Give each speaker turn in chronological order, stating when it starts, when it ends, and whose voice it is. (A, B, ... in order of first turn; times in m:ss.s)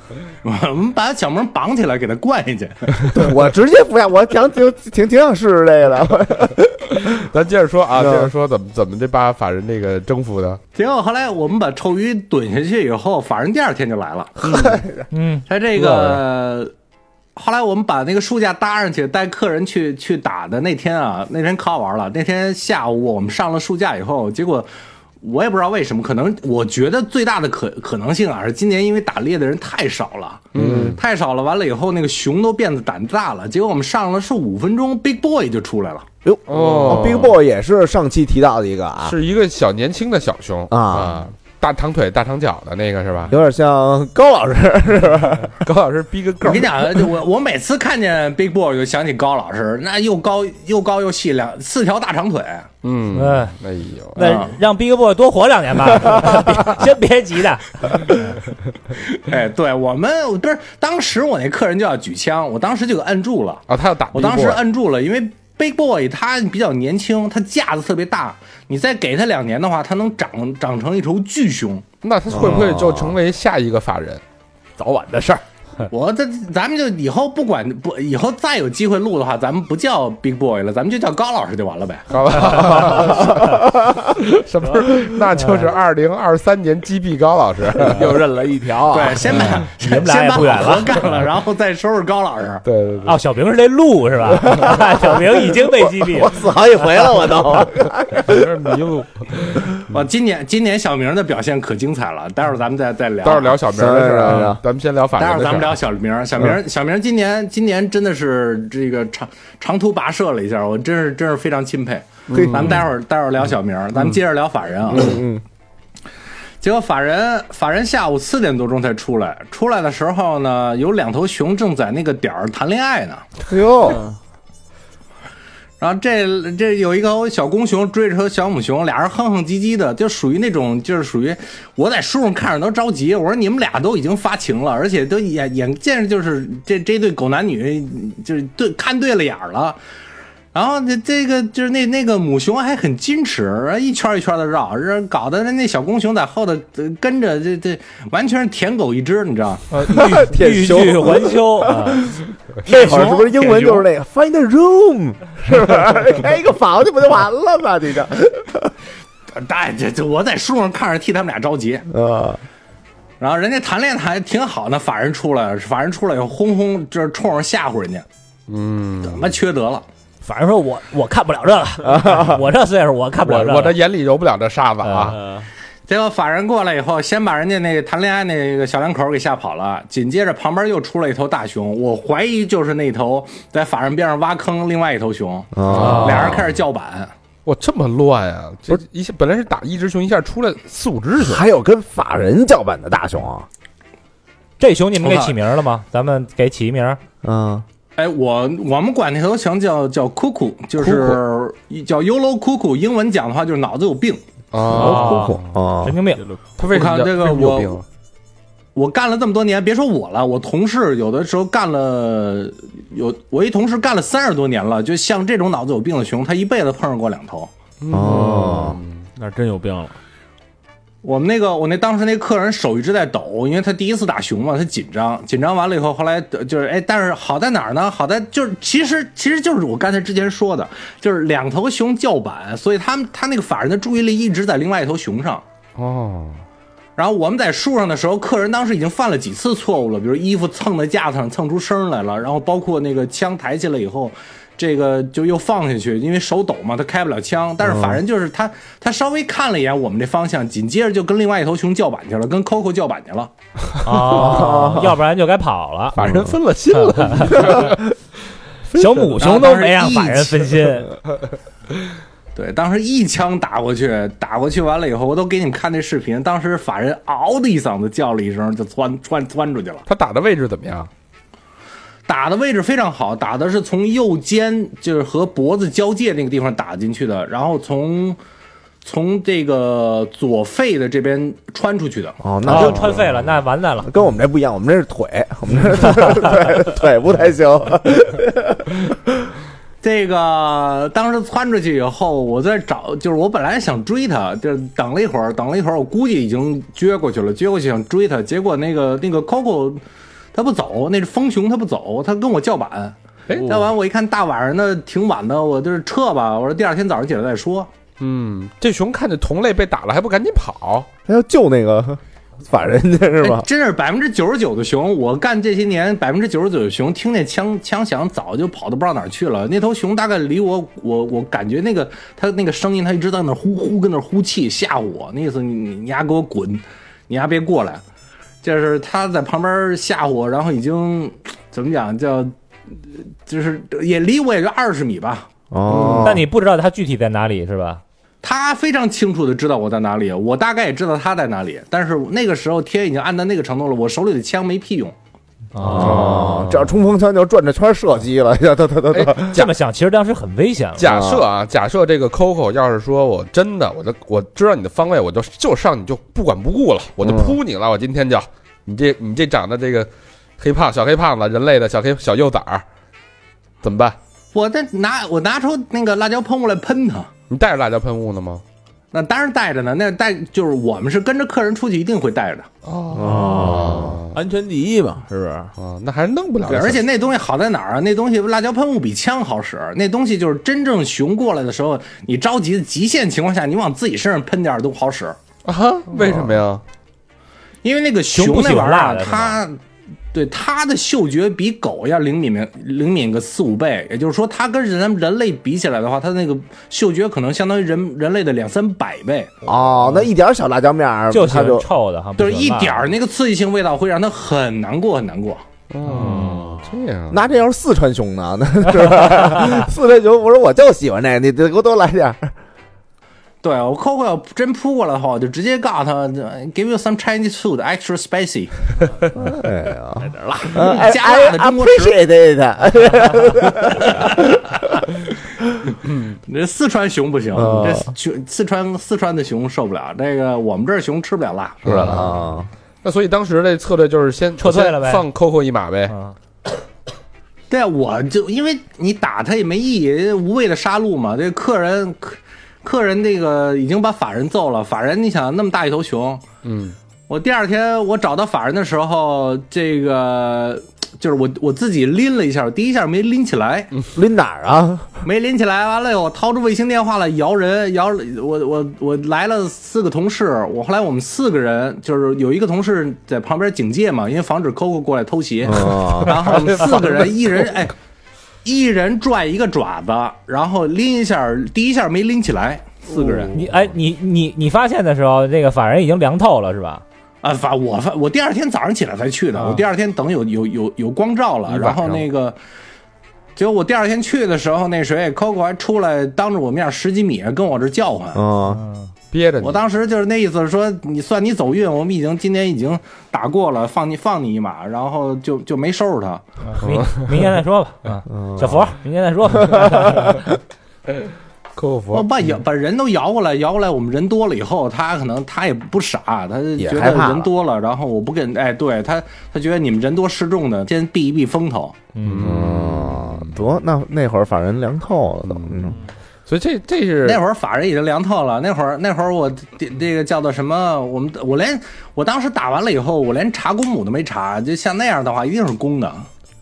0:00.4-0:03.1 A
0:03.1-0:07.2 B
0:07.0-0:10.6 C
0:08.0-0:08.3 B
0:10.8-0:14.4 A
0:14.4-0:14.8 C
0:14.4-0:15.0 B
0:15.1-0:15.5 D
0:15.5-0:16.7 A
0:15.8-0:16.2 C
0:17.4-0:24.7 A
0:25.2-0:36.1 A
0:30.5-0:31.0 C
0:30.6-0:31.0 B
0:36.2-0:39.2 B
0:36.5-0:37.4 C
0:39.0-0:43.3 C
0:40.7-0:41.3 B
0:43.3-0:45.5 B
0:45.6-0:47.1 C
0:46.4-0:52.7 A
0:52.8-0:54.3 C
0:53.1-0:53.5 D
0:54.2-0:58.2 D
0:54.2-0:54.5 A
0:58.9-1:11.8 A
1:03.7-1:04.6 C
1:12.0-1:14.2 C
1:12.3-1:13.2 B
1:14.8-1:15.4 E
1:15.9-1:22.1 A
1:22.1-1:28.2 C
1:23.4-1:24.0 B
1:25.4-1:25.7 D
1:27.8-1:29.4 E
1:28.9-1:32.6 A
1:29.3-1:31.0 D
1:32.6-1:33.2 C
1:33.1-1:36.4 D
1:34.3-1:38.6 B
1:38.1-1:39.9 C
1:39.9-1:43.6 A
1:43.2-1:45.8 C
1:43.7-1:44.6 B
1:45.2-1:55.2 A
1:52.3-1:52.8 C
1:52.3-1:52.8 B
1:54.9-1:55.4 B
1:56.6-2:03.2 A
2:03.5-2:04.0 B
2:03.9-2:04.1 E
2:05.8-2:19.8 A
2:20.5-2:29.7 A
2:29.7-2:32.0 D
2:29.8-2:38.7 B
2:32.6-2:33.9 A
2:39.3-2:41.9 A
2:41.9-2:42.4 B
2:43.2-2:48.0 A
2:48.5-2:49.3 C
2:49.0-2:49.9 A
2:50.2-2:53.8 D
2:51.8-2:52.4 B
2:53.2-2:55.2 C
2:54.8-2:55.2 D
2:55.2-2:55.5 E
2:55.9-3:07.1 A
3:05.6-3:06.3 B
3:05.7-3:06.5 C
3:05.8-3:06.4 D
3:07.5-3:11.4 C
3:11.2-3:13.5 B
3:14.6-3:17.0 D
3:15.1-3:15.3 A
3:17.2-3:17.6 B
3:18.0-3:24.2 A
3:20.8-3:21.2 C
3:24.5-3:25.6 C
3:24.7-3:26.0 B
3:24.7-3:26.3 D
3:26.6-3:27.8 C
3:26.6-3:27.8 A
3:28.8-3:37.5 A
3:37.8-3:39.1 C
3:37.9-3:38.8 B
3:38.0-3:38.6 E
3:39.2-3:40.0 E
3:41.0-3:55.4 A
3:55.8-3:56.4 C
3:57.0-4:13.3 A
4:07.6-4:08.0 B
4:13.8-4:16.0 D
4:14.1-4:15.0 B
4:16.0-4:17.9 C
4:16.0-4:16.4 B
4:16.7-4:17.4 D
4:17.4-4:17.8 B
4:18.7-4:20.9 D
4:18.8-4:19.1 C
4:19.2-4:20.6 A
4:22.4-4:29.9 A
4:29.9-4:30.9 C
4:32.1-4:38.2 A
4:38.8-4:42.2 A
4:42.2-4:43.1 B
4:42.4-4:43.9 D
4:42.5-4:43.0 C
4:43.8-4:49.1 B
4:49.8-4:59.8 A
5:00.3-5:07.7 A
5:08.0-5:10.9 C
5:11.1-5:13.5 B
5:13.2-5:27.8 A
5:28.4-5:35.3 A
5:35.5-5:36.2 B
5:35.7-5:36.2 C
5:36.0-5:37.8 D
5:38.2-5:44.9 A
5:45.5-5:46.2 D
5:45.7-5:49.4 B
5:45.8-5:46.7 C
5:48.9-5:49.5 C
5:49.3-5:51.0 D
5:50.8-6:02.6 C
5:50.8-5:51.2 B
5:57.0-5:57.4 B
6:03.6-6:04.0 C
6:04.3-6:07.1 A
6:07.3-6:08.4 C
6:08.9-6:12.5 A
6:12.6-6:14.2 C
6:12.9-6:14.0 B
6:13.4-6:15.5 E
6:15.6-6:16.8 C
6:16.5-6:25.2 A
6:25.4-6:26.6 C
6:27.6-6:29.6 A
6:28.1-6:29.4 D
6:30.1-6:39.4 A
6:39.5-6:41.7 B
6:41.1-6:42.9 D
6:42.2-6:45.4 A
6:45.7-6:47.2 C
6:45.9-6:46.7 E
6:47.1-6:52.3 B
6:53.4-6:58.5 A
6:59.2-7:04.2 B
7:00.4-7:02.0 A
7:03.6-7:04.3 A
7:05.9-7:06.2 C
7:06.3-7:12.0 A
7:07.3-7:07.9 B
7:11.6-7:12.1 C
7:11.7-7:12.5 B
7:12.8-7:15.9 C
7:14.4-7:15.0 D
7:15.9-7:16.2 D
7:17.5-7:26.2 A
7:26.4-7:26.8 C
7:27.1-7:33.7 A
7:34.0-7:35.0 B
7:35.0-7:47.7 A
7:45.5-7:46.2 B
7:46.1-7:47.1 C
7:48.4-7:53.4 A
7:52.9-7:53.3 E
7:53.3-7:56.8 D
7:57.2-8:02.4 A
8:01.5-8:02.0 C
8:03.4-8:08.2 A
8:08.1-8:08.6 B
8:08.5-8:08.9 D
8:09.1-8:09.6 C
8:09.4-8:16.2 A
8:16.4-8:20.3 D
8:16.6-8:17.1 C
8:18.1-8:18.7 B
8:19.5-8:20.1 B
8:21.6-8:22.1 C
8:21.9-8:31.8 A
8:26.6-8:27.3 B
8:31.9-8:32.4 D
8:32.0-8:33.3 C
8:32.2-8:35.8 B
8:35.3-8:35.6 C
8:36.3-8:37.2 C
8:37.0-8:46.1 A